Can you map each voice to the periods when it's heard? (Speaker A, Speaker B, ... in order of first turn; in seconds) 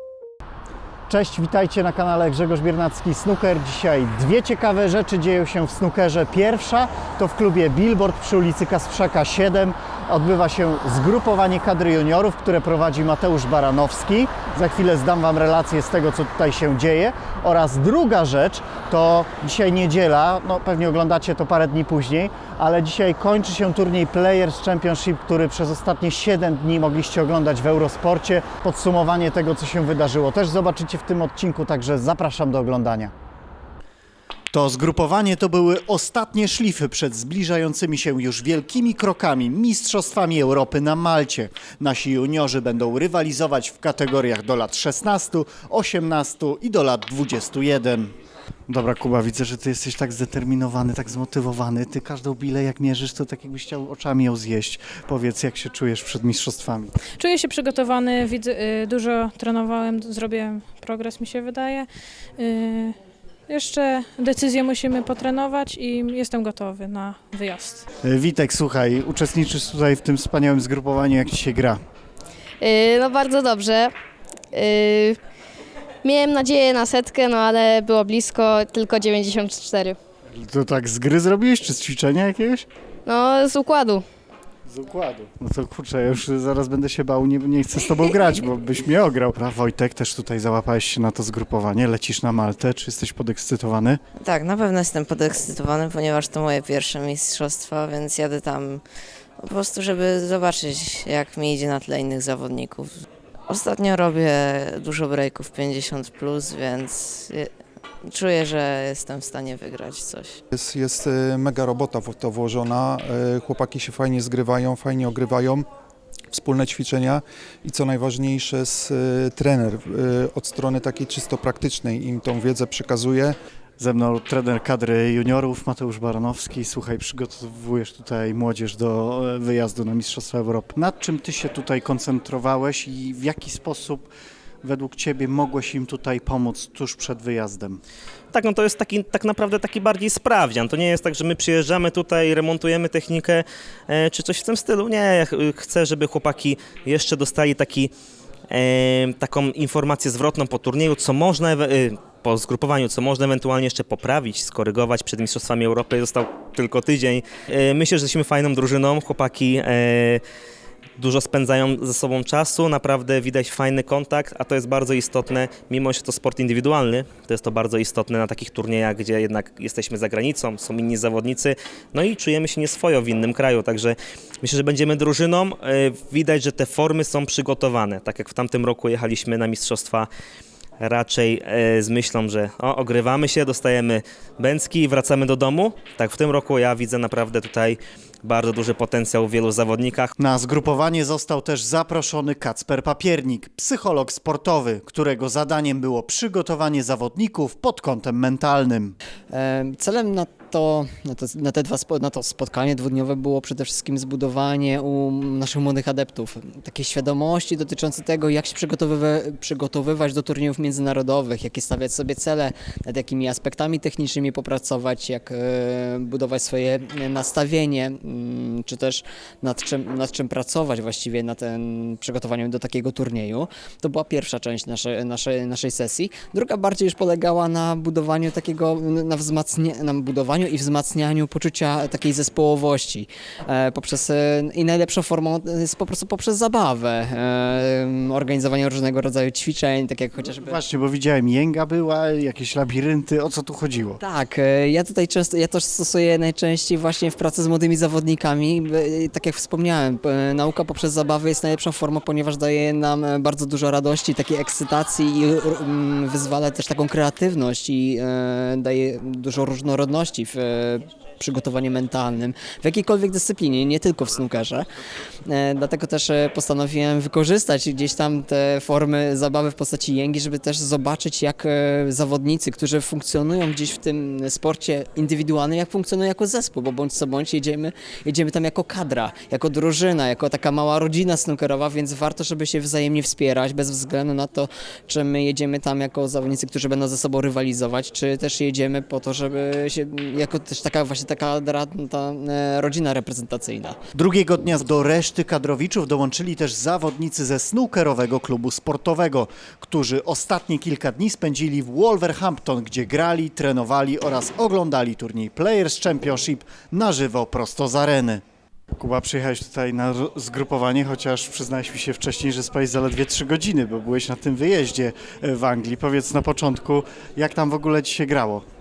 Speaker A: 1.1-33.1, 34.5-48.1, 48.7-56.9, 68.0-71.8, 80.3-82.7, 84.7-94.0, 123.8-134.1, 134.6-137.8, 190.2-198.9, 240.3-244.0, 293.9-308.2, 308.8-318.4
Speaker B: 57.2-63.0, 63.5-67.8
Speaker C: 72.6-73.9, 74.5-75.1, 76.0-79.9, 83.1-84.0
Speaker D: 94.2-98.8, 99.4-107.5, 108.0-110.4
Speaker E: 110.5-115.7, 116.3-123.3
Speaker F: 138.3-147.9, 148.5-160.2, 161.0-180.1, 180.8-190.1
Speaker G: 199.3-240.6, 244.0-264.7, 265.2-293.8